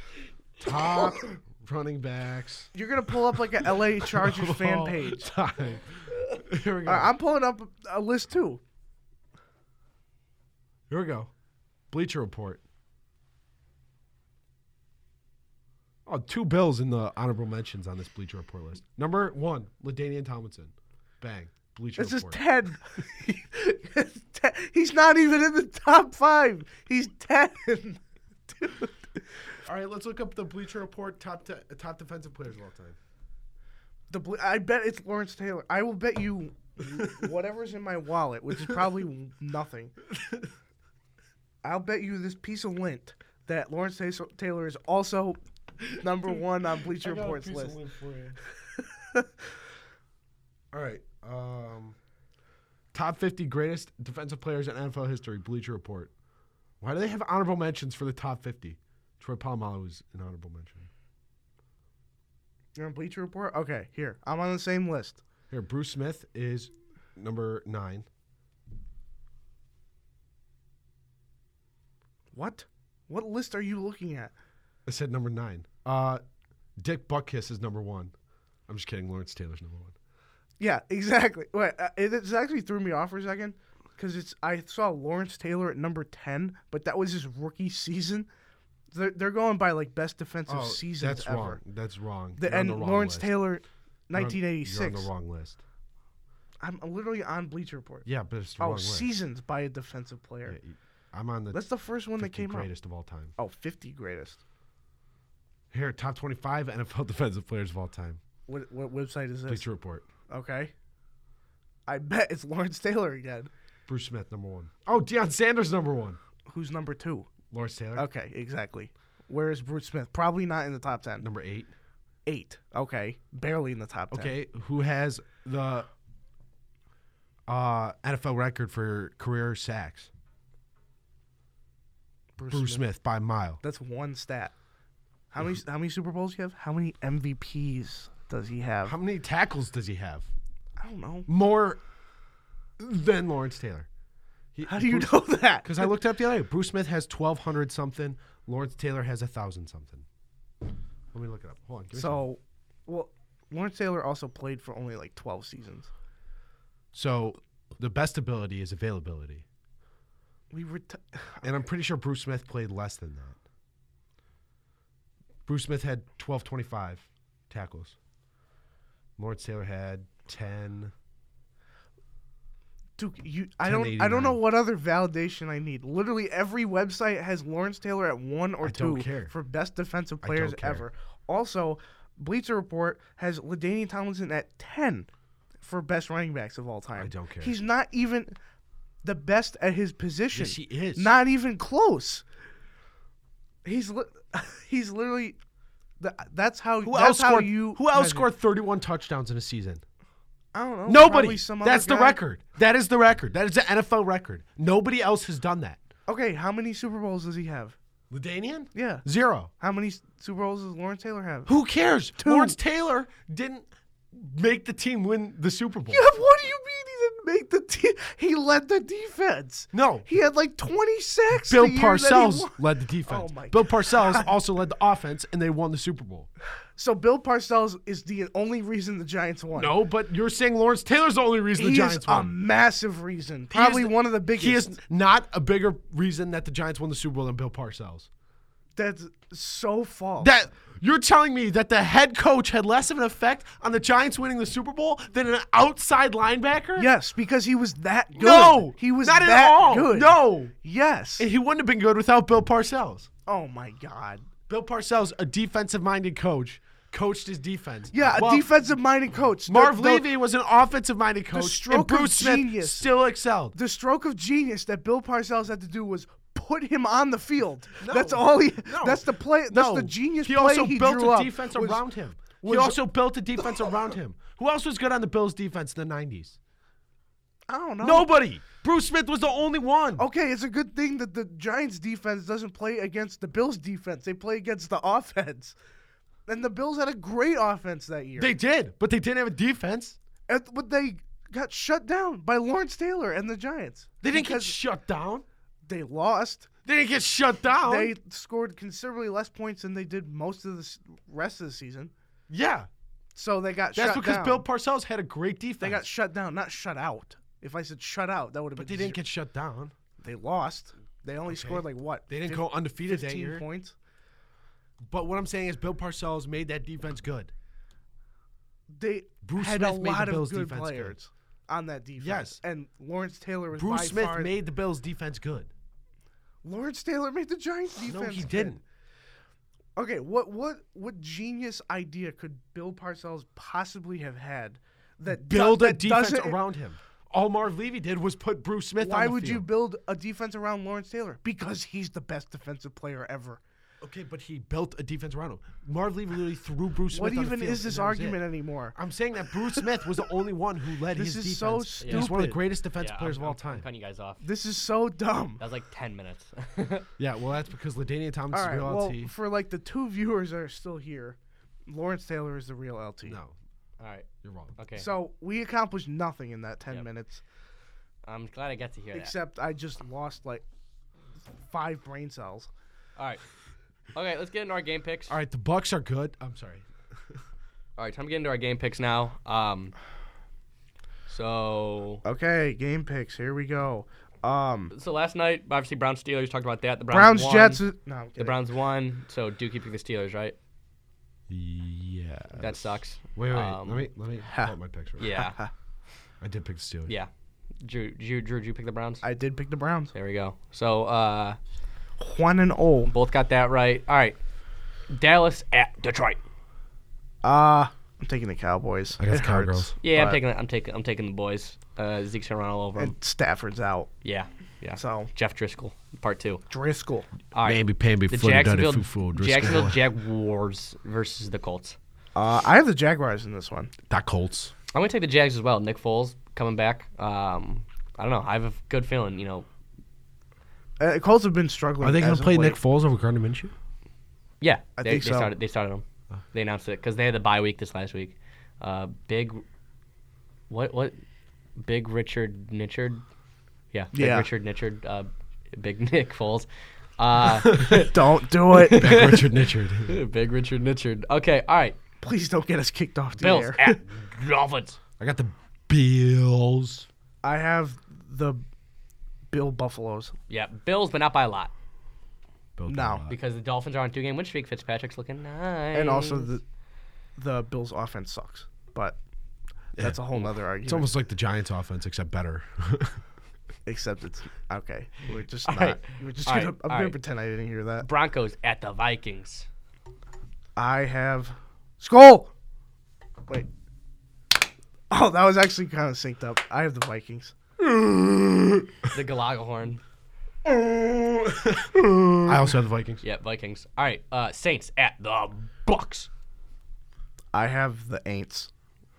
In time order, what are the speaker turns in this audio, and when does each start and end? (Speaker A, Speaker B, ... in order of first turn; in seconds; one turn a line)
Speaker A: 0.6-7.1
Speaker B: 2.7-5.3
Speaker B: 6.9-8.6
Speaker A: 10.9-11.3
Speaker A: 11.9-12.6
Speaker A: 16.1-22.4
Speaker B: 22.0-29.2
Speaker A: 29.7-33.0
Speaker B: 34.1-39.9
Speaker A: 36.9-37.3
Speaker A: 40.1-40.5
Speaker B: 41.6-47.8
Speaker A: 47.0-48.4
Speaker B: 48.8-49.3
Speaker A: 50.7-52.0
Speaker A: 52.9-56.1
Speaker A: 56.8-60.9
Speaker B: 62.8-65.2
Speaker A: 65.5-68.1
Speaker B: 72.3-74.3
Speaker A: 74.9-76.2
Speaker A: 76.8-78.1
Speaker A: 78.7-80.0
Speaker B: 80.6-88.3
Speaker B: 88.9-91.6
Speaker A: 90.5-93.4
Speaker B: 92.4-95.1
Speaker A: 94.1-95.6
Speaker B: 96.6-98.1
Speaker A: 98.0-99.1
Speaker B: 98.6-100.6
Speaker A: 100.5-101.6
Speaker B: 101.5-102.7
Speaker A: 102.2-103.3
Speaker B: 103.4-104.4
Speaker A: 105.7-108.2
Speaker B: 108.5-109.7
Speaker A: 109.5-110.0
Speaker B: 110.3-110.7
Speaker B: 111.9-113.5
Speaker A: 113.9-116.2
Speaker B: 116.5-117.3
Speaker A: 117.5-118.1
Speaker B: 117.9-121.2
Speaker A: 121.2-121.7
Speaker B: 122.2-124.3
Speaker A: 124.1-125.9
Speaker A: 127.5-130.1
Speaker B: 132.4-132.8
Speaker A: 132.5-133.6
Speaker B: 133.6-134.5
Speaker B: 135.3-138.9
Speaker A: 138.8-140.3
Speaker B: 140.8-141.3
Speaker A: 141.3-141.8
Speaker A: 142.8-143.9
Speaker A: 144.5-150.1
Speaker B: 144.7-145.9
Speaker A: 151.1-152.2
Speaker B: 152.0-155.9
Speaker A: 156.9-159.4
Speaker B: 160.5-161.5
Speaker A: 161.4-163.4
Speaker A: 165.5-168.0
Speaker A: 169.2-170.9
Speaker B: 173.0-185.1
Speaker A: 173.6-174.4
Speaker A: 178.6-179.3
Speaker A: 180.2-180.8
Speaker B: 185.6-188.3
Speaker A: 187.0-187.6
Speaker B: 189.0-192.2
Speaker A: 190.3-191.1
Speaker B: 193.6-195.4
Speaker B: 196.0-198.3
Speaker A: 196.8-199.8
Speaker B: 200.5-202.2
Speaker A: 200.9-205.8
Speaker B: 206.1-207.8
Speaker A: 208.1-209.5
Speaker B: 208.8-209.0
Speaker B: 209.6-211.5
Speaker A: 211.5-216.1
Speaker B: 212.2-212.6
Speaker B: 215.9-224.3
Speaker A: 219.7-220.1
Speaker A: 221.5-226.3
Speaker B: 226.8-229.8
Speaker A: 229.5-232.3
Speaker B: 231.6-234.7
Speaker A: 233.5-238.1
Speaker B: 238.8-240.3
Speaker A: 240.2-246.9
Speaker B: 246.8-251.3
Speaker A: 248.2-250.5
Speaker A: 251.2-253.1
Speaker B: 253.3-254.3
Speaker A: 254.5-258.5
Speaker B: 257.9-260.1
Speaker A: 259.5-263.6
Speaker B: 261.3-262.9
Speaker B: 263.5-272.8
Speaker A: 267.8-276.4
Speaker B: 277.5-278.1
Speaker A: 277.8-280.0
Speaker B: 280.0-285.5
Speaker B: 286.3-288.3
Speaker A: 288.2-290.0
Speaker B: 290.3-294.5
Speaker A: 294.0-295.2
Speaker B: 295.6-296.5
Speaker A: 296.6-297.9
Speaker B: 297.6-301.9
Speaker A: 302.3-302.7
Speaker B: 303.1-304.4
Speaker A: 303.7-305.9
Speaker B: 305.6-309.0
Speaker A: 308.6-309.7
Speaker B: 310.0-313.8
Speaker A: 311.3-313.4
Speaker A: 314.9-317.3
Speaker B: 318.7-324.3
Speaker A: 319.2-320.9
Speaker A: 322.0-322.4
Speaker A: 323.5-325.5
Speaker B: 326.4-328.6
Speaker A: 327.9-328.6
Speaker B: 329.8-336.4
Speaker A: 335.1-339.5
Speaker B: 338.8-343.4
Speaker A: 343.8-348.2
Speaker B: 346.9-348.8
Speaker A: 348.8-353.6
Speaker B: 350.9-352.4
Speaker C: 351.8-352.1
Speaker C: 352.8-354.2
Speaker B: 354.2-355.4
Speaker C: 355.4-356.9
Speaker A: 357.0-359.1
Speaker B: 358.3-363.2
Speaker A: 363.1-363.4
Speaker C: 363.8-364.9
Speaker A: 364.2-364.6
Speaker B: 364.8-367.2
Speaker C: 368.0-369.1
Speaker B: 368.9-370.4
Speaker B: 371.4-372.5
Speaker C: 373.9-375.1
Speaker A: 375.1-377.2
Speaker C: 377.8-379.7
Speaker C: 381.1-382.0
Speaker B: 382.0-384.7
Speaker C: 384.7-387.6
Speaker B: 386.9-388.4
Speaker C: 388.2-390.4
Speaker A: 391.3-392.6
Speaker C: 392.4-393.9
Speaker A: 393.1-395.1
Speaker B: 394.3-394.5
Speaker C: 395.0-395.4
Speaker B: 395.0-395.5
Speaker A: 396.2-396.9
Speaker C: 397.6-399.0
Speaker B: 399.0-399.9
Speaker C: 399.9-401.4
Speaker B: 402.0-402.9
Speaker C: 402.9-404.2
Speaker C: 404.9-406.2
Speaker B: 407.2-410.2
Speaker A: 409.0-409.7
Speaker C: 409.8-412.9
Speaker B: 412.8-413.9
Speaker C: 414.0-416.4
Speaker B: 414.8-415.1
Speaker B: 416.5-417.1
Speaker C: 417.3-421.8
Speaker A: 417.4-419.8
Speaker B: 422.1-423.7
Speaker A: 423.9-424.5
Speaker C: 424.7-429.5
Speaker B: 430.8-432.6
Speaker A: 431.8-433.5
Speaker C: 434.4-439.4
Speaker B: 434.8-435.3
Speaker C: 440.5-441.0
Speaker C: 441.6-443.0
Speaker C: 443.7-446.5
Speaker B: 443.9-444.2
Speaker C: 447.0-448.0
Speaker A: 447.5-447.8
Speaker B: 447.6-449.2
Speaker C: 448.5-449.3
Speaker A: 448.7-450.0
Speaker C: 449.9-451.8
Speaker B: 452.0-453.8
Speaker C: 453.2-454.8
Speaker A: 455.0-456.9
Speaker B: 457.2-458.4
Speaker B: 459.3-460.1
Speaker C: 460.3-461.5
Speaker A: 462.6-463.2
Speaker B: 462.7-463.0
Speaker C: 463.1-466.3
Speaker B: 465.7-466.4
Speaker B: 467.2-469.0
Speaker B: 469.8-470.9
Speaker A: 470.6-473.0
Speaker B: 473.6-477.9
Speaker C: 475.4-477.0
Speaker C: 477.8-479.5
Speaker B: 480.6-482.3
Speaker B: 484.9-487.3
Speaker A: 487.6-488.2
Speaker C: 488.9-489.8
Speaker A: 491.2-493.0
Speaker C: 493.0-496.1
Speaker B: 497.3-498.5